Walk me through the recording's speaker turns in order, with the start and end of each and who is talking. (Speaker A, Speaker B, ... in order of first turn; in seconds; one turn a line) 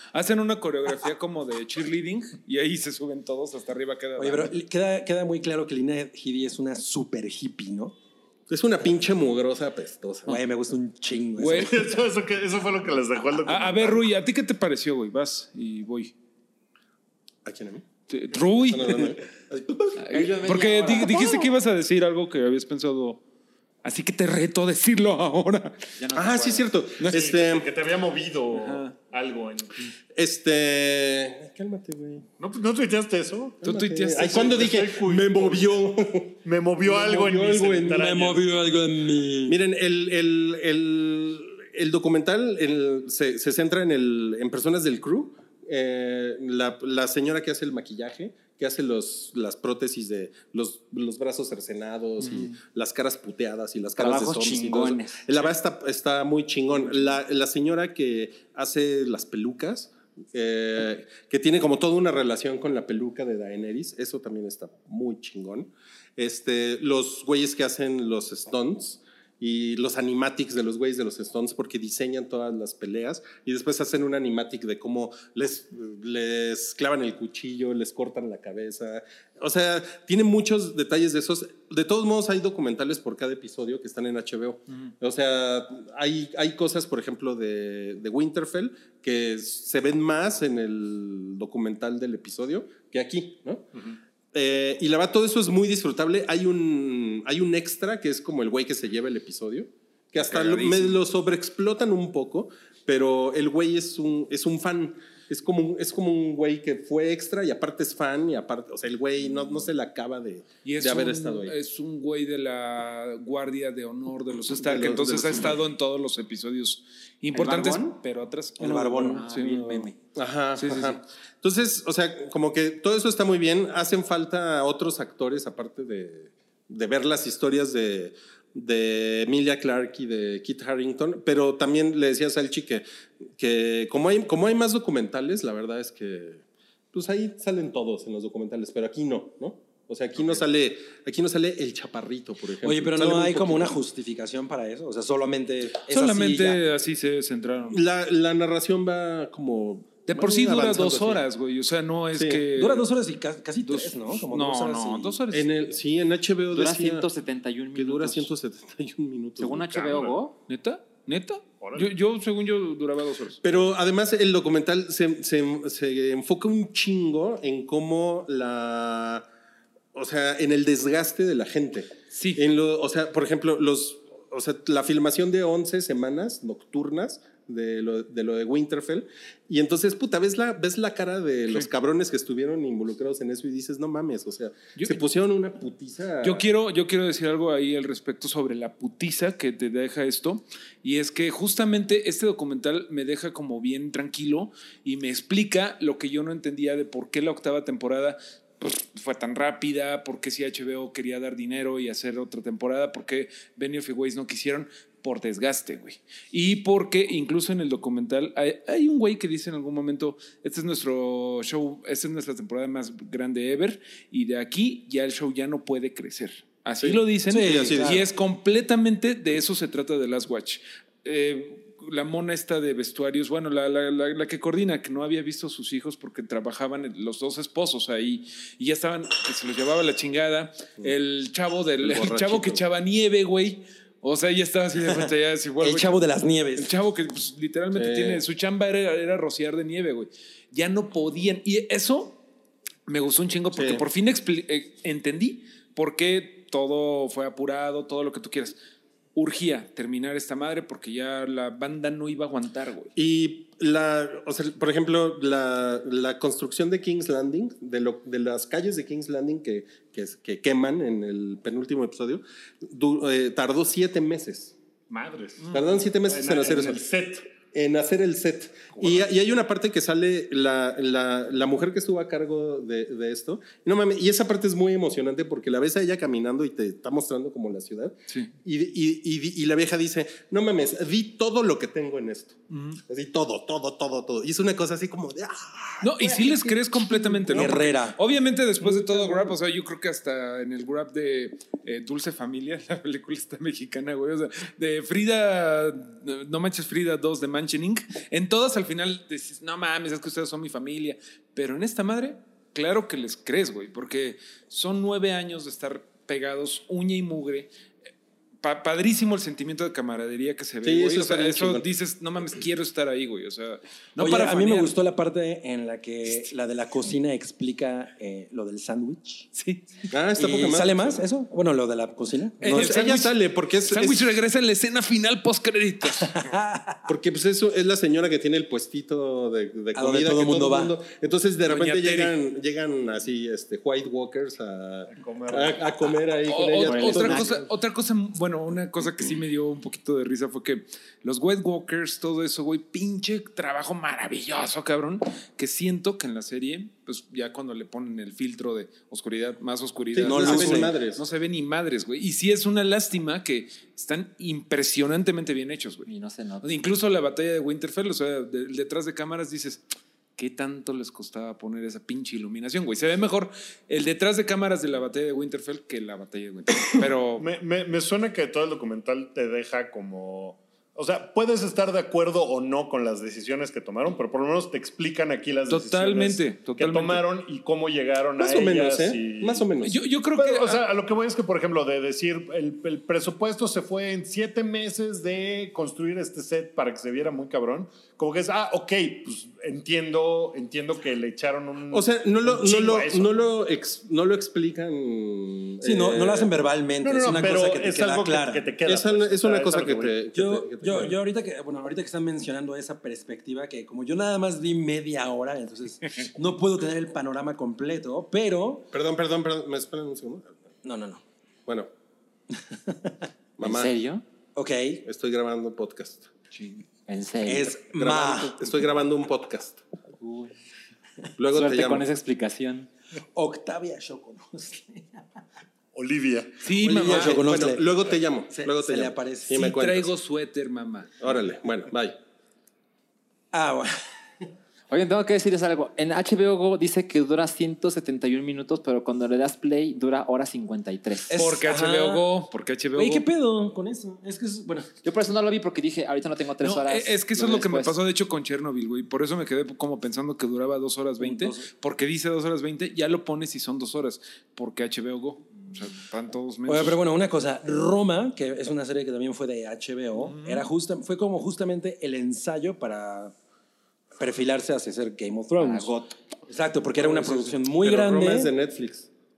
Speaker A: 0.1-4.5
Speaker B: 4.2-7.9
Speaker C: 8.5-10.3
Speaker B: 10.3-11.9
Speaker A: 11.4-11.8
Speaker D: 11.6-14.0
Speaker A: 13.4-16.1
Speaker C: 17.4-17.8
Speaker A: 18.1-19.2
Speaker C: 18.6-20.0
Speaker A: 19.9-23.2
Speaker E: 20.1-21.5
Speaker A: 23.8-25.8
Speaker E: 26.0-26.7
Speaker C: 26.1-27.7
Speaker D: 27.1-29.9
Speaker A: 28.5-28.9
Speaker C: 30.1-32.2
Speaker D: 32.4-33.6
Speaker A: 33.6-34.6
Speaker C: 33.6-38.2
Speaker D: 34.1-35.7
Speaker D: 36.4-38.4
Speaker B: 37.8-39.6
Speaker C: 39.5-93.7
Speaker A: 52.2-52.5
Speaker E: 54.0-55.3
Speaker C: 94.3-111.5
Speaker A: 100.2-101.0
Speaker A: 110.6-119.9
Speaker C: 114.5-115.6
Speaker E: 117.3-118.0
Speaker B: 118.6-119.2
Speaker E: 119.1-119.9
Speaker C: 120.1-143.7
Speaker A: 120.5-121.0
Speaker B: 142.6-146.6
Speaker A: 145.9-147.8
Speaker C: 147.7-151.2
Speaker A: 150.1-152.9
Speaker C: 152.1-152.4
Speaker B: 152.5-155.2
Speaker A: 153.6-155.5
Speaker C: 155.3-157.1
Speaker E: 156.5-158.3
Speaker C: 157.8-159.6
Speaker E: 159.4-160.3
Speaker D: 159.7-160.2
Speaker A: 160.5-163.4
Speaker D: 161.6-161.9
Speaker C: 163.4-169.3
Speaker C: 169.9-186.4
Speaker A: 172.1-172.4
Speaker A: 186.2-236.0
Speaker C: 216.8-218.0
Speaker B: 217.3-218.1
Speaker C: 231.8-232.6
Speaker B: 235.6-236.7
Speaker A: 236.6-242.2
Speaker C: 237.7-238.2
Speaker A: 242.9-248.6
Speaker C: 243.5-243.8
Speaker A: 249.1-252.9
Speaker C: 252.9-264.6
Speaker D: 264.9-267.3
Speaker C: 265.5-266.8
Speaker C: 267.5-287.6
Speaker D: 268.7-269.1
Speaker A: 282.5-282.8
Speaker A: 285.8-307.5
Speaker B: 287.3-288.0
Speaker A: 308.4-314.7
Speaker C: 310.6-311.6
Speaker B: 314.0-319.3
Speaker A: 319.3-319.9
Speaker C: 319.9-321.0
Speaker B: 320.1-322.8
Speaker A: 322.4-326.1
Speaker C: 322.5-324.1
Speaker B: 326.0-326.8
Speaker C: 326.9-337.4
Speaker B: 329.7-330.7
Speaker A: 331.5-332.1
Speaker D: 334.9-335.7
Speaker A: 336.3-355.9
Speaker E: 336.6-337.4
Speaker C: 349.9-351.0
Speaker B: 350.0-350.7
Speaker E: 355.9-356.5
Speaker A: 356.4-359.6
Speaker A: 360.2-367.3
Speaker D: 367.2-379.5
Speaker A: 375.5-377.0
Speaker C: 378.2-379.8
Speaker A: 379.6-380.6
Speaker D: 380.1-393.2
Speaker C: 391.7-396.3
Speaker B: 395.6-398.5
Speaker D: 396.8-400.0
Speaker C: 398.6-400.9
Speaker B: 400.1-408.7
Speaker C: 408.7-410.4
Speaker B: 410.6-411.0
Speaker B: 412.5-412.9
Speaker C: 413.4-413.7
Speaker E: 413.4-414.0
Speaker B: 414.3-414.8
Speaker C: 414.8-416.1
Speaker A: 416.3-416.6
Speaker E: 416.9-417.6
Speaker B: 417.2-418.4
Speaker C: 417.7-419.6
Speaker E: 420.0-420.3
Speaker C: 421.2-421.9
Speaker E: 421.3-422.7
Speaker B: 423.1-425.0
Speaker D: 425.7-426.3
Speaker A: 426.4-427.3
Speaker B: 426.6-427.7
Speaker C: 426.8-429.9
Speaker B: 428.3-429.5
Speaker A: 429.3-430.9
Speaker C: 431.0-432.0
Speaker B: 433.3-433.7
Speaker E: 434.7-441.1
Speaker B: 441.1-442.0
Speaker A: 441.1-443.1
Speaker B: 442.8-444.7
Speaker E: 444.8-447.8
Speaker A: 446.4-456.8
Speaker B: 451.0-451.5
Speaker B: 456.5-463.1
Speaker A: 459.9-460.5
Speaker B: 464.0-465.7
Speaker E: 465.3-465.9
Speaker B: 466.3-468.3
Speaker C: 466.8-468.9